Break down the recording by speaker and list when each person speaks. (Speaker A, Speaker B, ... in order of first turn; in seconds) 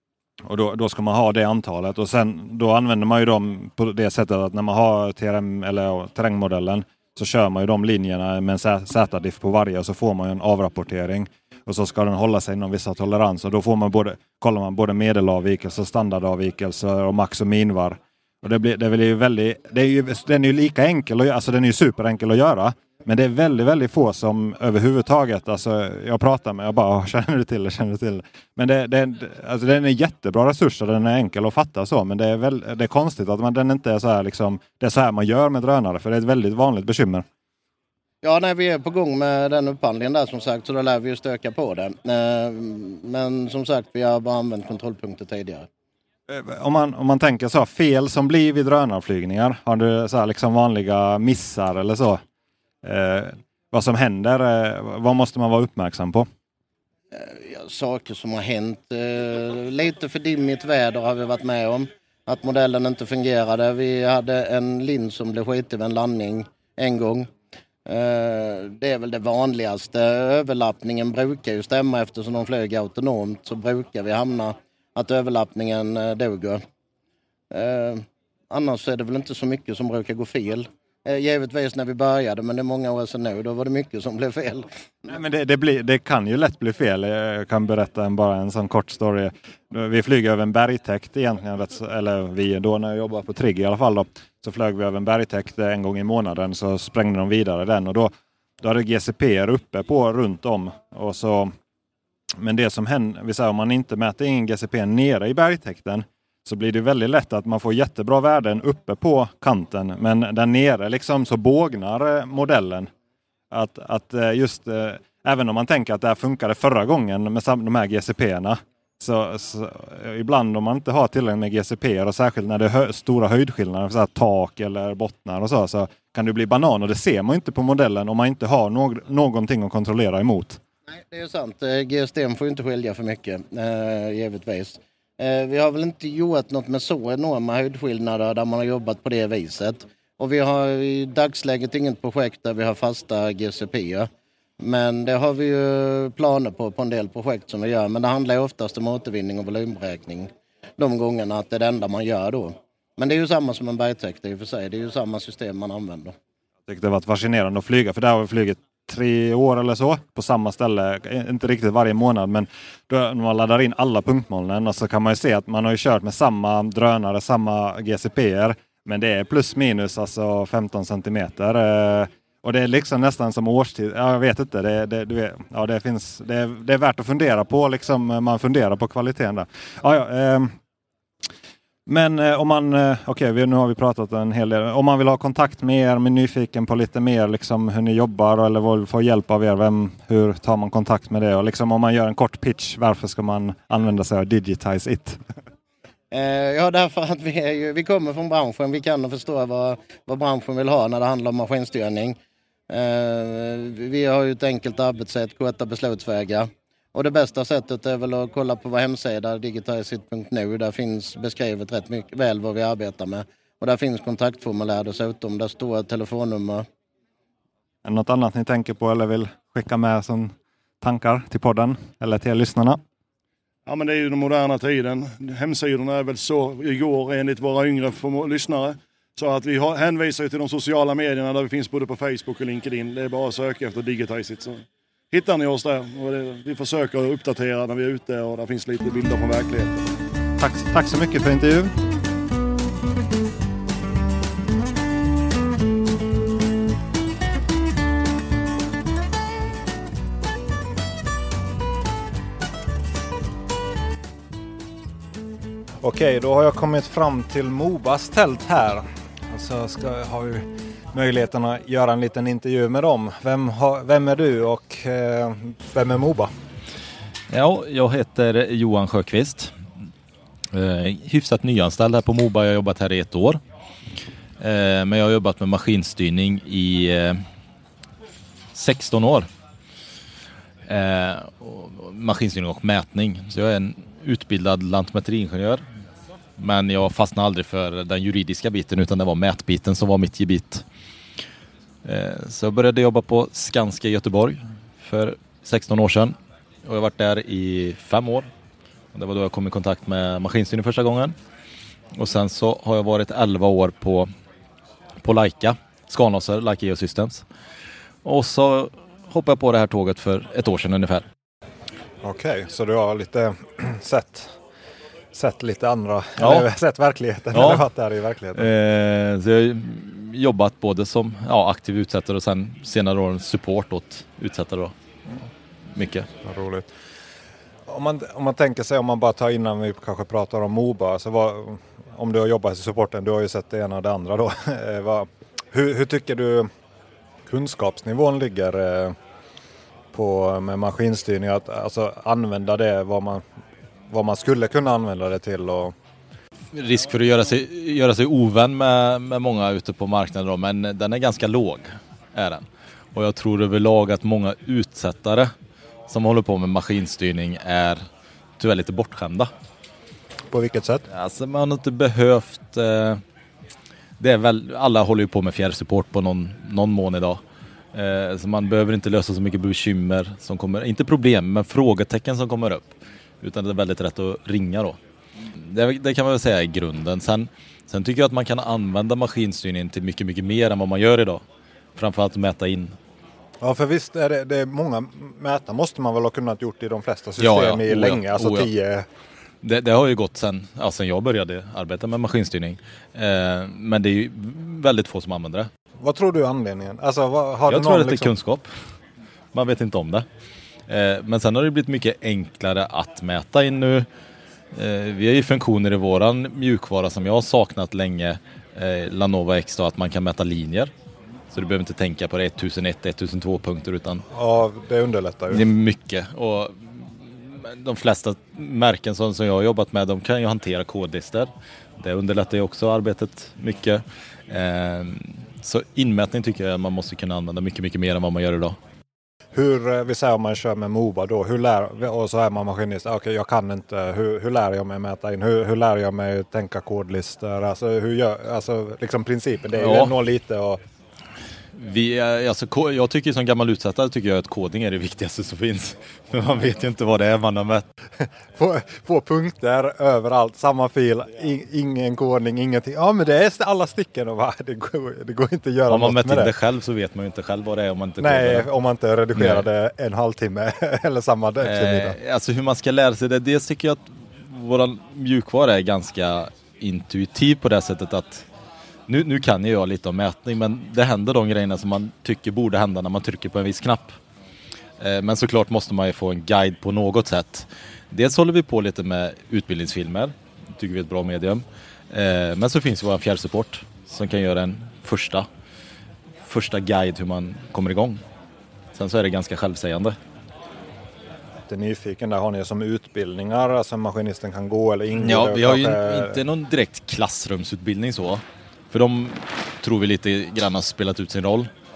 Speaker A: 0.5-37.2, 46.3-52.2, 52.8-56.2, 85.1-101.5, 102.4-112.9, 113.5-130.6, 156.7-180.6, 181.8-195.2, 217.8-222.8, 240.4-241.7, 255.8-266.3, 312.0-314.4, 315.1-318.4, 326.2-326.7, 327.7-336.5, 337.3-338.9, 339.9-343.2, 343.9-345.7, 360.3-360.8, 383.4-388.9, 395.8-398.1, 414.1-415.4, 429.3-440.6, 448.3-456.3, 458.0-462.0, 491.5-496.2
Speaker B: 38.2-45.7, 57.1-67.3, 67.8-76.6, 77.5-84.7, 130.9-144.1, 144.6-156.2, 196.1-202.2, 202.7-216.7
Speaker C: 223.7-239.9
Speaker D: 267.3-269.5, 270.5-273.4, 274.4-277.2, 278.5-279.3, 280.7-285.6, 286.4-290.6, 291.8-298.3, 298.9-301.1, 301.9-304.1, 305.0-307.2, 308.0-311.1, 316.2-316.5, 317.3-317.6, 318.3-324.7, 325.7-326.1, 346.5-355.3, 355.9-357.8, 358.4-359.3, 360.9-363.0, 364.0-367.2, 367.7-374.8, 375.3-381.2, 381.8-382.8, 387.2-388.5, 389.4-395.5, 397.5-398.5, 399.3-400.1, 400.7-403.9, 404.5-410.7, 411.3-414.0, 415.3-428.6, 439.6-439.9, 441.6-447.6, 455.7-458.5, 459.1-459.4, 461.4-468.2, 468.9-474.0, 474.8-485.3, 486.3-488.0, 488.8-490.0, 495.0-501.5